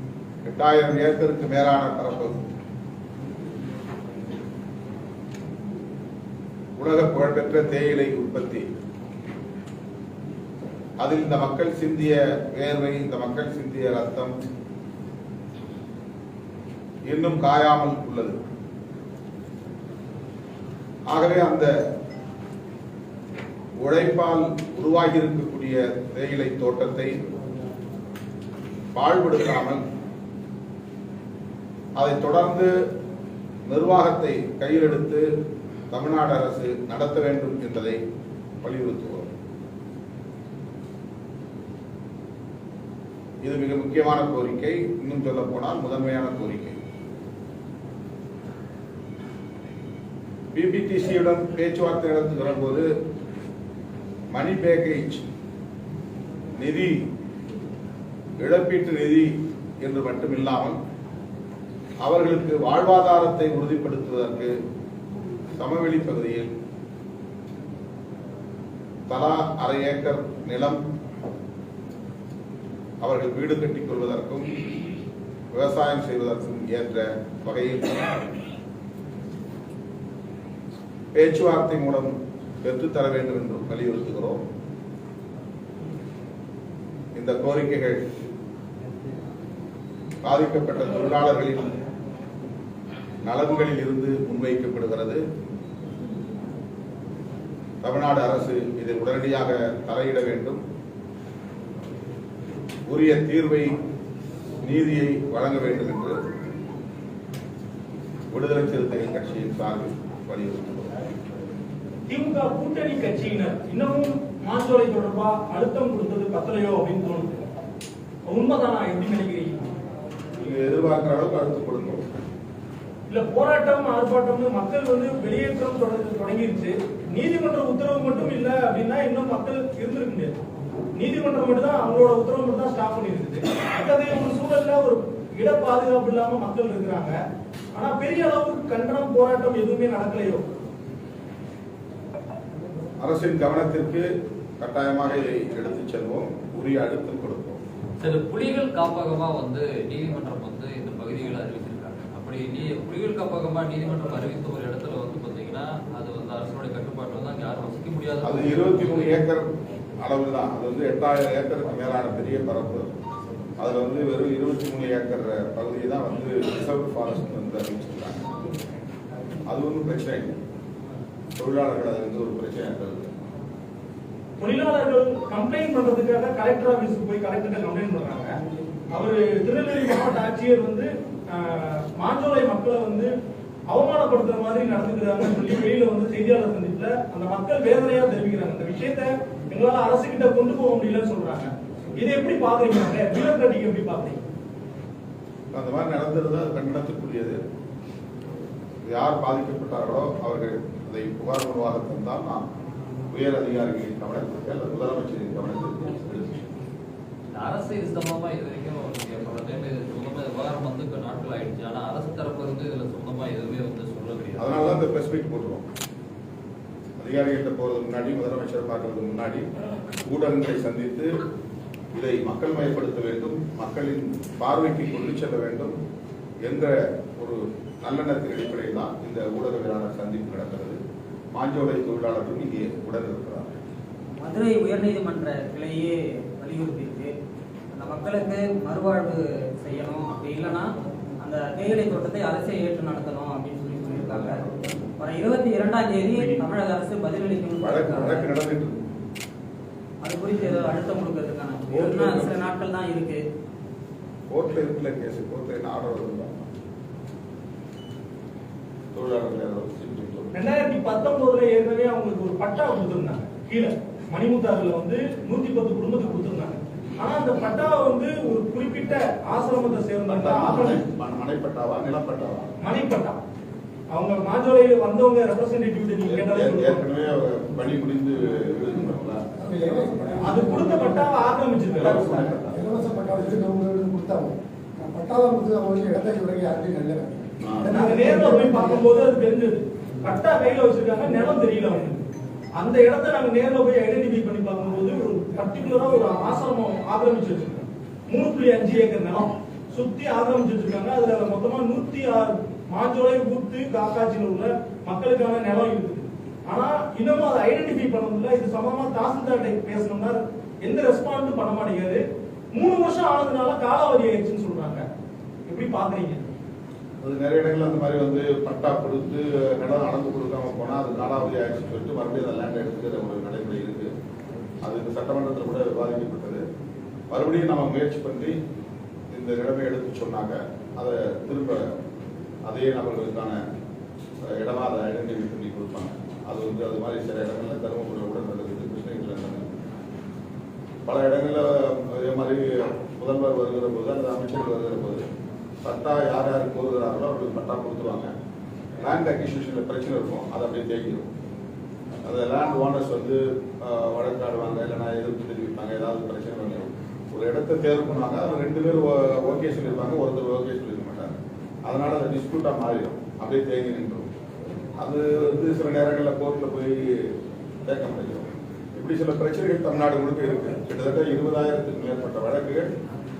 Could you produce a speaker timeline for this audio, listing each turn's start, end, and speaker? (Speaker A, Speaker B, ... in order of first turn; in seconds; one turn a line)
Speaker A: 0.4-2.4
Speaker A: 6.8-8.7
Speaker A: 11.0-14.3
Speaker A: 17.1-18.4
Speaker A: 21.1-21.7
Speaker A: 23.8-27.1
Speaker A: 28.9-29.8
Speaker A: 32.0-32.7
Speaker A: 33.7-35.2
Speaker A: 35.9-38.0
Speaker A: 38.6-39.3
Speaker A: 43.4-46.8
Speaker A: 50.5-52.9
Speaker A: 54.3-55.2
Speaker A: 56.6-57.0
Speaker A: 58.4-59.3
Speaker A: 59.8-60.8
Speaker A: 62.0-64.5
Speaker A: 65.5-66.5
Speaker A: 69.1-70.8
Speaker A: 73.0-74.5
Speaker A: 75.5-78.2
Speaker A: 81.1-82.1
Speaker A: 82.6-84.4
Speaker A: 87.2-88.0
Speaker A: 90.2-91.7
Speaker A: 93.2-95.2
Speaker A: 97.8-100.6
Speaker A: 102.9-103.7
Speaker A: 104.6-106.2
Speaker A: 108.3-110.9
Speaker B: 112.1-117.4
Speaker B: 118.3-119.6
Speaker A: 120.4-122.0
Speaker B: 123.1-130.3
Speaker B: 130.9-137.1
Speaker B: 137.7-140.4
Speaker A: 143.0-144.1
Speaker A: 144.6-147.6
Speaker C: 148.0-159.2
Speaker A: 158.2-159.5
Speaker A: 160.0-162.8
Speaker A: 163.6-168.3
Speaker A: 169.5-170.3
Speaker A: 171.4-173.2
Speaker B: 174.4-178.3
Speaker B: 178.9-183.1
Speaker B: 183.7-194.2
Speaker A: 195.5-197.4
Speaker A: 198.9-202.4
Speaker A: 203.1-206.4
Speaker C: 207.3-214.8
Speaker A: 214.3-215.6
Speaker A: 217.0-219.4
Speaker A: 220.0-221.1
Speaker A: 221.9-225.8
Speaker A: 226.4-230.8
Speaker A: 231.3-233.5
Speaker D: 234.2-237.1
Speaker D: 237.7-240.7
Speaker D: 241.2-244.4
Speaker A: 244.2-244.7
Speaker D: 245.0-248.2
Speaker A: 246.2-246.4
Speaker A: 247.6-248.8
Speaker D: 250.0-253.2
Speaker A: 251.7-252.4
Speaker A: 254.3-256.5
Speaker A: 258.9-260.4
Speaker B: 260.3-270.8
Speaker A: 270.1-272.5
Speaker B: 272.6-273.2
Speaker B: 273.9-276.8
Speaker A: 276.0-279.2
Speaker E: 279.4-281.1
Speaker B: 280.2-282.1
Speaker A: 281.7-282.6
Speaker E: 281.8-288.9
Speaker A: 287.4-287.7
Speaker B: 287.7-312.0
Speaker B: 312.5-314.8
Speaker B: 315.5-316.2
Speaker A: 317.0-323.9
Speaker A: 324.6-326.4
Speaker A: 327.1-328.4
Speaker A: 329.1-331.7
Speaker A: 332.4-333.4
Speaker A: 334.2-339.5
Speaker A: 340.9-345.0
Speaker A: 345.6-348.1
Speaker A: 348.8-351.1
Speaker A: 352.0-364.1
Speaker A: 364.8-367.1
Speaker A: 367.6-372.7